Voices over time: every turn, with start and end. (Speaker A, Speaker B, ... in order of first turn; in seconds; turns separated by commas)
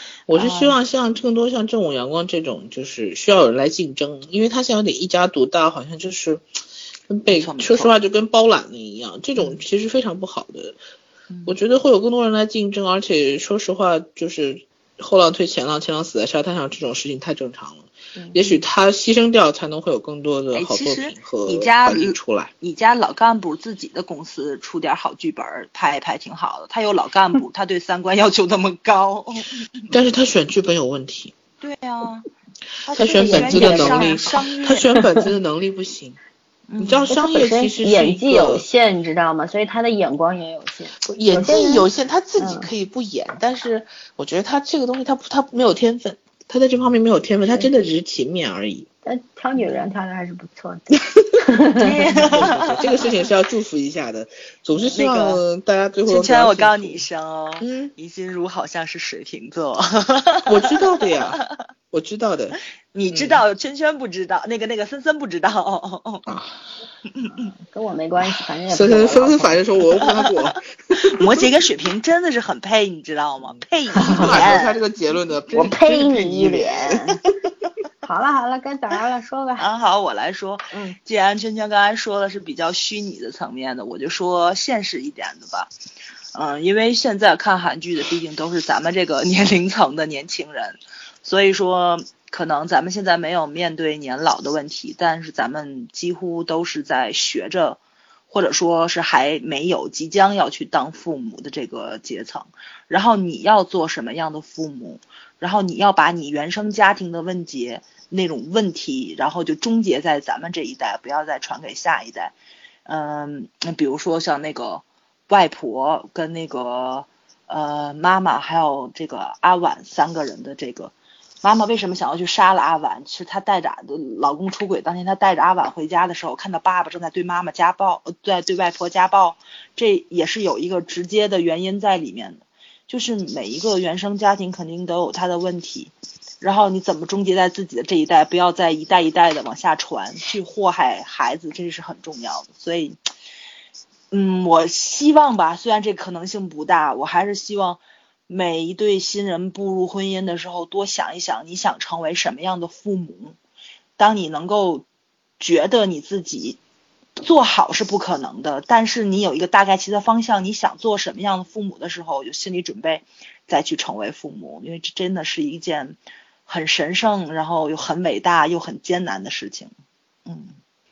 Speaker A: 0.3-6.5, Speaker B: 0.3-0.8, Speaker A: 7.1-10.8, Speaker B: 7.3-8.0, Speaker B: 11.3-11.6, Speaker A: 11.5-22.5, Speaker B: 18.3-18.6, Speaker B: 20.5-29.8, Speaker A: 29.9-31.3, Speaker B: 31.6-32.3, Speaker B: 32.8-35.0, Speaker A: 32.9-36.2, Speaker C: 33.0-34.4, Speaker C: 34.9-35.2, Speaker B: 36.7-37.1, Speaker A: 36.8-38.6, Speaker C: 37.1-41.9, Speaker A: 41.0-48.9, Speaker C: 42.4-42.7, Speaker C: 49.0-52.4, Speaker B: 49.6-49.9, Speaker B: 51.8-53.1, Speaker A: 52.2-57.0, Speaker B: 54.8-55.4, Speaker B: 56.1-61.5, Speaker A: 57.6-57.9, Speaker A: 60.5-63.4, Speaker B: 62.9-66.3, Speaker A: 66.3-66.5, Speaker B: 67.1-67.5, Speaker C: 67.3-69.6, Speaker A: 68.7-71.3, Speaker B: 70.0-70.4, Speaker B: 70.9-74.8, Speaker A: 73.5-77.1, Speaker C: 73.9-74.5, Speaker C: 75.5-77.2, Speaker C: 78.0-79.7, Speaker B: 79.6-85.7, Speaker C: 80.7-81.0, Speaker B: 86.3-112.3, Speaker B: 112.9-143.0, Speaker B: 144.1-153.4, Speaker B: 154.0-154.9, Speaker B: 155.4-156.6, Speaker B: 157.2-169.7, Speaker B: 170.3-170.6